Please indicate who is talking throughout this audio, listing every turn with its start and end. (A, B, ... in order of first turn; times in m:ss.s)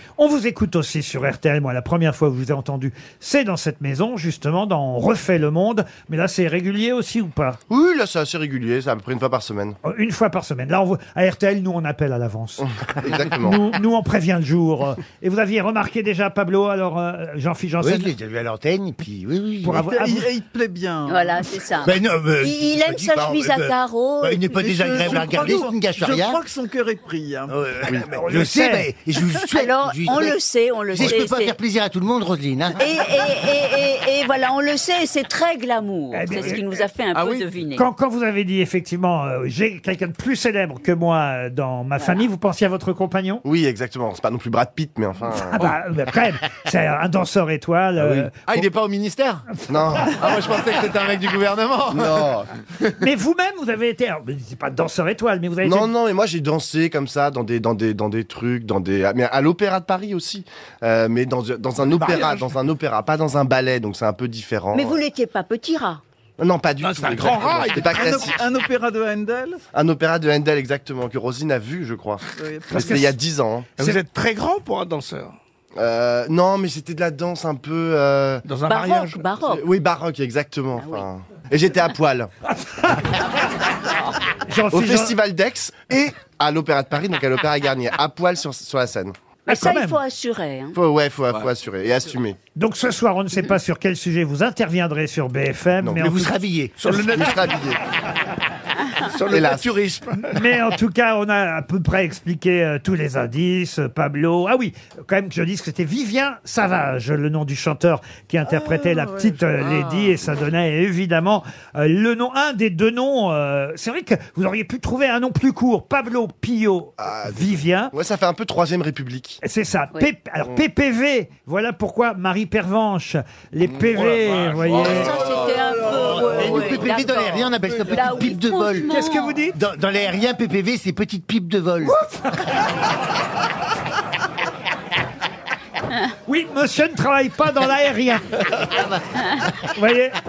0:00.2-0:07.6 A
0:07.7-0:09.8 B
0:09.8-0:18.1 A
0:12.6-0:13.6 B
0:17.8-0:19.8 C
0:19.6-0:20.3 A
0:19.7-0:21.5 D
0:21.0-0:25.2 E
0:21.8-0:26.5 C
0:24.8-0:27.5 D
0:27.5-0:30.4 C
0:28.0-0:28.9 A
0:29.5-0:31.6 E
0:30.9-0:32.9 C
0:32.8-0:37.9 E
0:36.1-0:36.7 A
0:37.1-0:37.5 F
0:37.7-0:43.4 A
0:42.0-0:42.3 E
0:43.4-0:45.7 B
0:45.4-0:48.7 A
0:48.0-0:49.6 F
0:49.7-0:50.2 B
0:50.2-0:52.3 F
0:51.9-0:52.5 B
0:53.0-0:55.9 A
0:55.6-1:05.0 B
1:02.0-1:02.4 G
1:04.7-1:06.0 E
1:06.4-1:08.4 B
1:06.8-1:08.4 G
1:08.0-1:09.6 D
1:09.7-1:13.7 B
1:12.4-1:13.0 D
1:12.7-1:13.2 A
1:13.8-1:15.3 G
1:15.8-1:18.6 B
1:18.4-1:19.4 G
1:18.6-1:19.7 E
1:19.5-1:22.3 B
1:20.8-1:21.1 E
1:24.4-1:25.1 A
1:24.7-1:29.2 B
1:29.5-1:30.8 E
1:29.5-1:30.0 A
1:30.7-1:32.4 B
1:32.6-1:36.4 A
1:35.8-1:36.1 B
1:36.0-1:36.7 C
1:36.8-1:37.8 G
1:36.9-1:37.8 B
1:39.0-1:40.4 G
1:39.3-1:39.7 B
1:40.2-1:57.9 A
1:48.5-1:49.3 D
1:57.0-1:59.4 B
1:59.4-2:05.2 A
2:03.7-2:05.6 F
2:04.7-2:09.4 E
2:05.3-2:06.7 D
2:06.0-2:08.9 C
2:07.8-2:08.2 D
2:08.9-2:09.6 A
2:09.5-2:12.0 C
2:11.8-2:12.5 A
2:16.2-2:18.4 A
2:18.6-2:19.0 C
2:19.7-2:20.2 A